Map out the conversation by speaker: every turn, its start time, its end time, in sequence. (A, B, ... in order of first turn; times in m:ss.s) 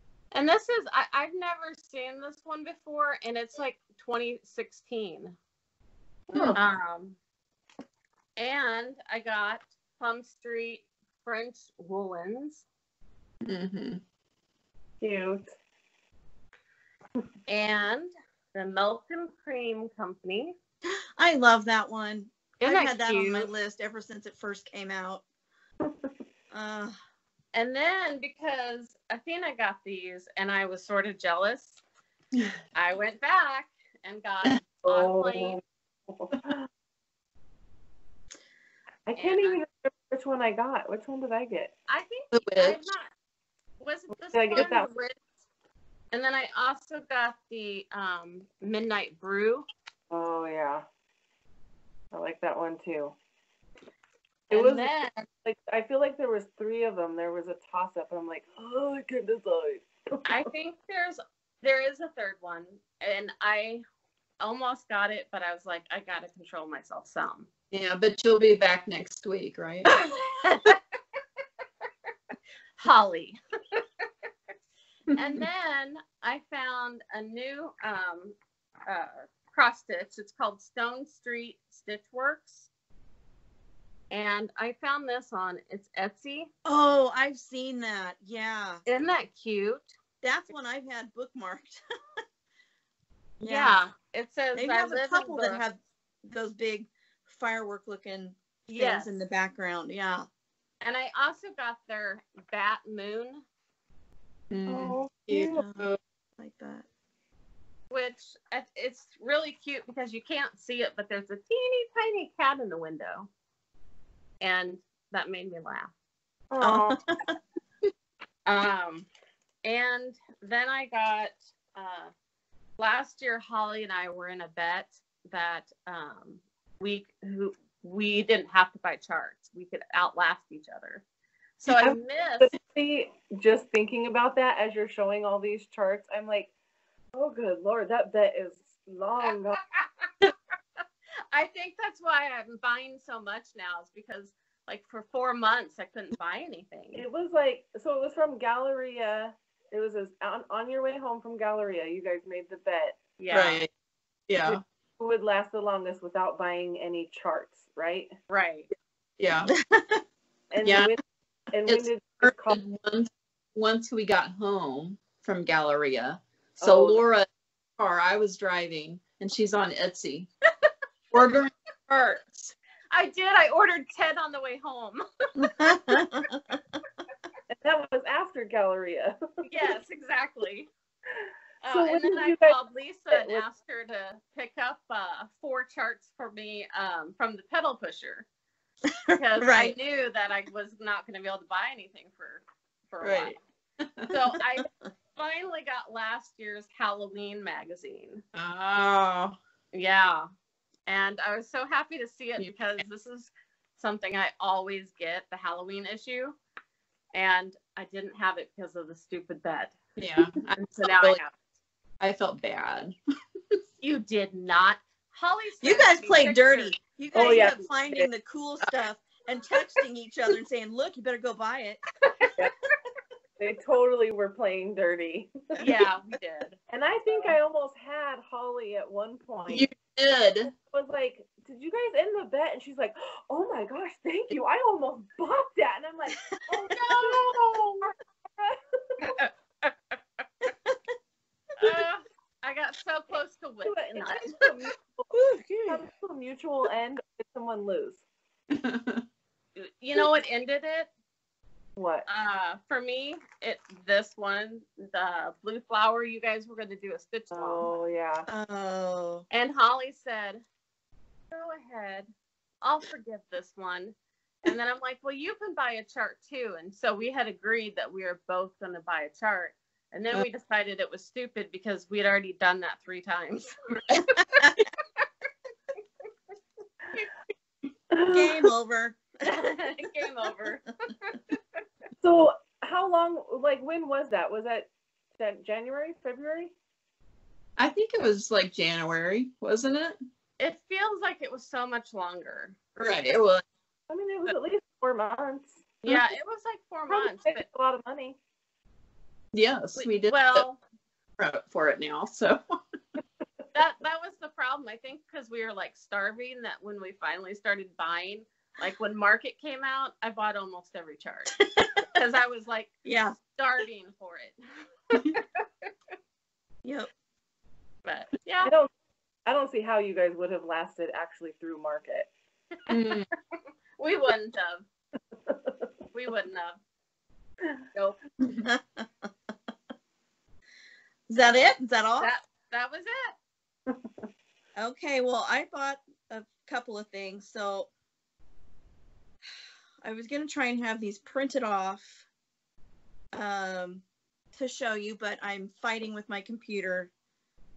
0:00.3-0:05.4 A
0:06.3-0:06.6 B
0:06.5-0:07.2 A
0:08.4-0:12.6 A
0:13.4-0:14.0 B
0:15.0-0:15.5 C
0:17.5-0:20.5 A
0:20.8-0:25.2 D
0:22.6-0:23.5 A
0:26.5-0:27.0 D
0:27.5-0:31.8 A
0:32.7-0:35.6 A
0:34.8-0:36.7 C
0:39.1-0:41.7 C
0:39.1-0:39.6 A
0:41.9-0:43.1 A
0:42.3-0:42.9 B
0:43.8-0:45.2 A
0:44.3-0:44.9 C
0:46.1-0:49.7 A
0:50.1-0:50.8 C
0:52.1-0:53.2 C
0:54.5-0:55.2 A
0:54.5-1:00.5 C
1:00.2-1:03.8 A
1:04.4-1:07.5 A
1:07.7-1:10.0 B
1:09.9-1:10.8 A
1:12.8-1:13.8 A
1:15.1-1:15.4 B
1:15.2-1:22.7 A
1:24.1-1:26.5 A
1:26.6-1:28.8 D
1:28.8-1:29.9 A
1:30.2-1:32.2 D
1:33.4-1:33.8 D
1:33.5-1:35.6 A
1:34.5-1:40.3 D
1:38.7-1:39.2 A
1:40.8-1:43.4 A
1:44.5-1:46.0 B
1:44.7-1:45.6 C
1:45.5-1:46.8 D
1:47.9-1:53.3 A
1:54.4-1:55.9 A
1:56.5-1:57.0 C
1:56.6-1:57.4 D
1:58.4-1:59.1 A
1:59.6-2:02.1 A
2:02.8-2:11.0 A
2:11.6-2:12.5 A
2:11.7-2:16.5 C
2:17.1-2:19.6 C
2:21.3-2:27.0 A
2:26.9-2:33.0 C
2:33.2-2:33.6 A
2:33.3-2:33.7 B
2:34.3-2:34.6 B
2:35.0-2:38.1 C
2:38.3-2:38.7 A
2:39.2-2:39.5 B
2:39.4-2:40.0 D
2:40.5-2:42.6 C
2:40.6-2:40.9 B
2:41.7-2:47.2 B
2:46.6-2:47.0 A
2:47.8-2:50.3 B
2:51.1-2:52.5 B
2:52.9-2:56.0 A
2:55.4-2:56.5 D
2:57.5-2:59.2 C
2:59.4-3:00.7 A
3:01.6-3:08.2 A
3:01.7-3:02.6 C
3:03.1-3:03.4 C
3:08.9-3:09.8 D
3:09.1-3:13.4 A
3:13.0-3:14.1 B
3:14.1-3:18.2 A
3:18.3-3:19.4 B
3:19.7-3:20.3 A
3:20.8-3:26.4 A
3:27.1-3:29.8 A
3:30.0-3:31.2 B
3:30.5-3:31.3 A
3:32.0-3:32.9 B
3:33.8-3:37.5 A
3:35.6-3:41.8 D
3:37.1-3:38.1 C
3:43.4-3:45.3 C
3:45.6-3:46.6 A
3:46.7-3:49.7 C
3:49.5-3:50.5 B
3:50.6-3:57.4 C
3:56.5-3:57.9 A
3:58.3-3:59.0 C
3:59.0-4:00.2 A
4:00.4-4:00.8 D
4:01.6-4:04.4 A
4:03.6-4:05.1 C
4:05.1-4:05.8 D
4:05.7-4:08.0 C
4:08.5-4:09.0 B
4:09.6-4:10.9 A
4:11.8-4:12.0 C
4:12.1-4:17.7 A
4:17.3-4:18.3 C
4:18.3-4:19.2 D
4:19.3-4:20.4 A
4:21.3-4:22.1 A
4:22.6-4:34.6 A
4:34.0-4:34.6 D
4:37.9-4:38.4 C
4:38.1-4:39.9 D
4:39.2-4:41.4 A
4:42.0-4:46.5 C
4:47.6-4:50.0 B
4:50.4-4:53.2 A
4:52.8-4:53.4 B
4:53.9-4:55.6 C
4:55.8-4:57.4 A
4:56.9-4:58.2 C
4:59.3-5:00.4 B
4:59.8-5:00.6 A
5:01.2-5:02.4 B
5:03.5-5:12.7 A
5:11.6-5:11.8 D
5:12.8-5:13.2 D
5:13.3-5:14.4 A
5:14.9-5:15.7 A
5:16.6-5:16.9 D
5:17.8-5:18.5 A
5:18.4-5:18.7 C
5:19.2-5:22.1 C
5:22.7-5:23.1 B
5:23.8-5:24.6 A
5:25.9-5:26.6 A
5:28.4-5:29.1 D
5:31.1-5:32.1 D
5:32.0-5:33.2 A
5:34.6-5:37.7 D
5:39.8-5:42.0 D
5:43.1-5:43.8 D
5:44.3-5:46.9 D